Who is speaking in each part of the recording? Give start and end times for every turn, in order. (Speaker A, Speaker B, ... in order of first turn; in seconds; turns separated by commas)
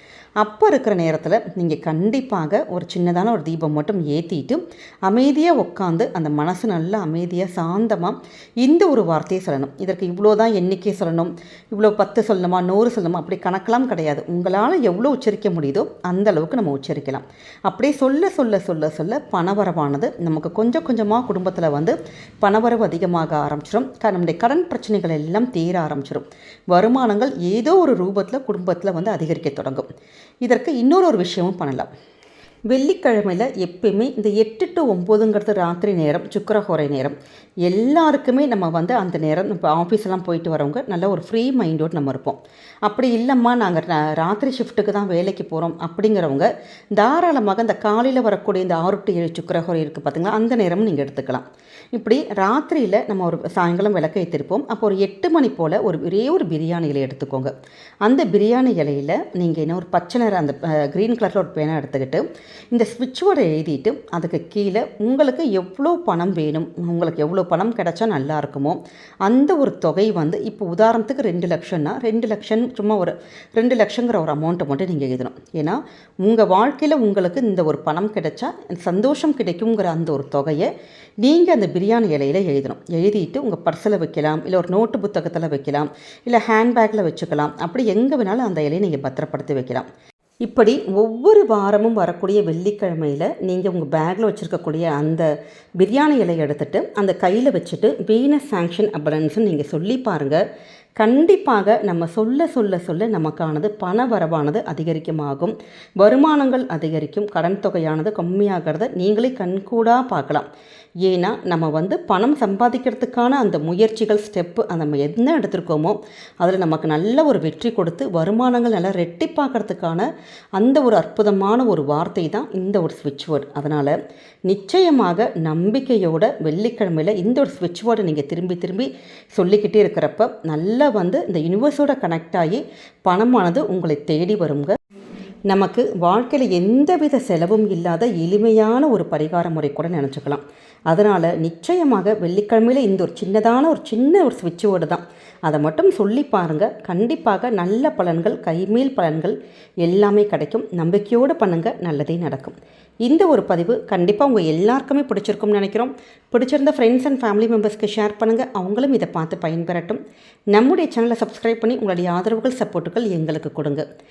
Speaker A: 0.4-29.9, Speaker A: 30.4-31.9, Speaker A: 32.7-57.5, Speaker A: 58.0-80.7, Speaker A: 81.2-89.9, Speaker A: 90.4-100.4, Speaker A: 101.0-110.5, Speaker A: 111.0-123.9, Speaker A: 124.5-134.8, Speaker A: 135.5-160.0, Speaker A: 160.5-163.8